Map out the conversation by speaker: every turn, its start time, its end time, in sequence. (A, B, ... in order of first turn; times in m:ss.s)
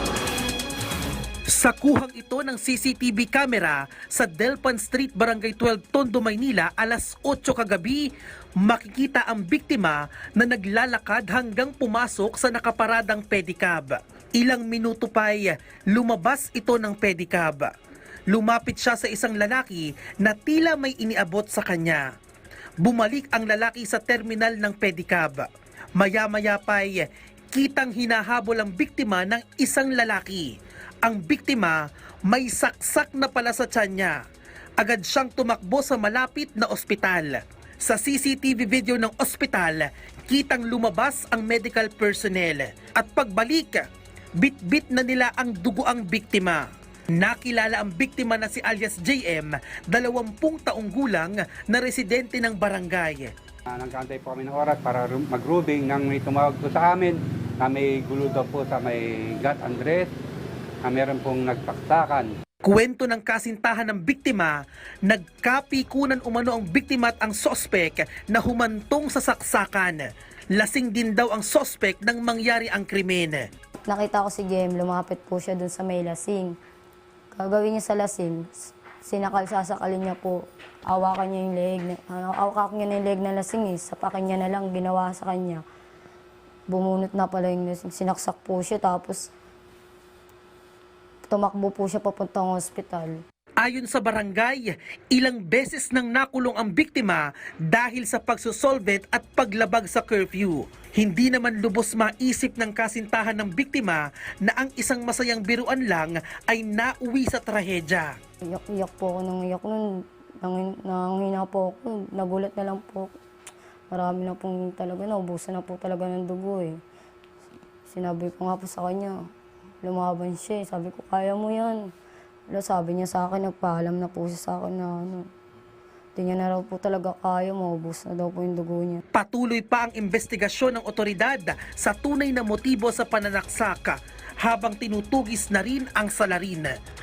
0:01.5-0:17.7 A
0:18.3-0:22.0 A
0:22.8-0:30.5 A
0:31.0-0:34.2 A
0:34.8-0:43.8 A
0:44.4-0:53.3 A
0:53.7-1:00.1 B
1:00.8-1:02.3 B
1:02.6-1:13.4 A
1:13.8-1:16.6 C
1:17.3-1:25.6 C
1:26.7-1:29.3 C
1:31.2-1:33.2 C
1:33.6-1:48.1 A
1:48.5-1:53.2 C
1:53.9-1:56.8 C
1:57.9-1:59.3 C
1:59.8-2:01.9 C
2:02.5-2:05.3 C
2:06.2-2:09.0 C
2:09.1-2:16.7 A